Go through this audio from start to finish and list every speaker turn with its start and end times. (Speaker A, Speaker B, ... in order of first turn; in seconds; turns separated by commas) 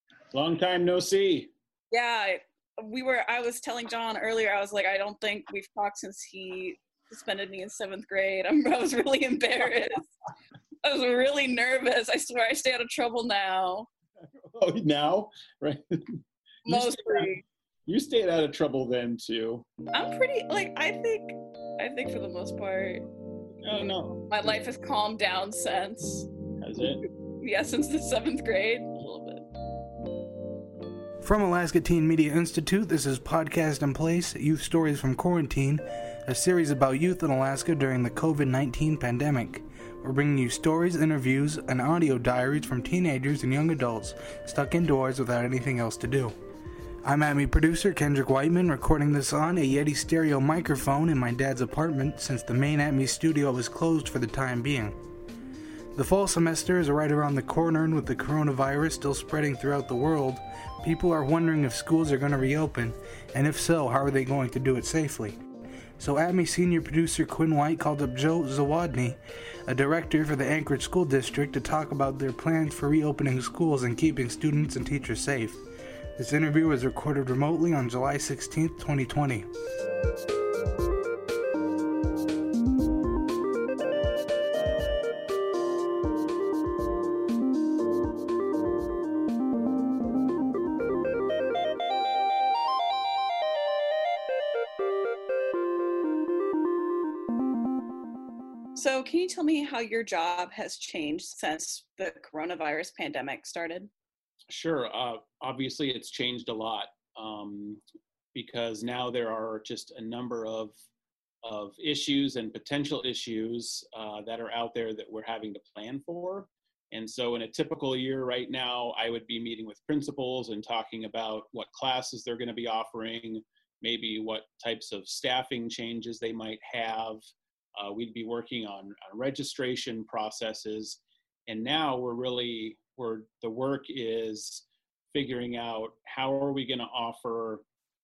Speaker A: 0.3-1.5, Speaker B: 1.9-10.1, Speaker B: 10.8-13.9, Speaker A: 14.5-17.3, Speaker B: 16.7-17.4, Speaker A: 17.9-19.7, Speaker B: 19.9-23.1, Speaker A: 23.6-24.3, Speaker B: 24.3-26.3, Speaker A: 26.6-27.0, Speaker B: 27.4-29.5, Speaker C: 31.2-46.4, Speaker C: 47.0-55.0, Speaker C: 56.0-65.4, Speaker C: 66.0-75.6, Speaker C: 76.2-79.5, Speaker B: 98.8-103.9, Speaker A: 104.5-107.8, Speaker A: 108.3-110.8, Speaker A: 111.4-127.3, Speaker A: 127.8-137.6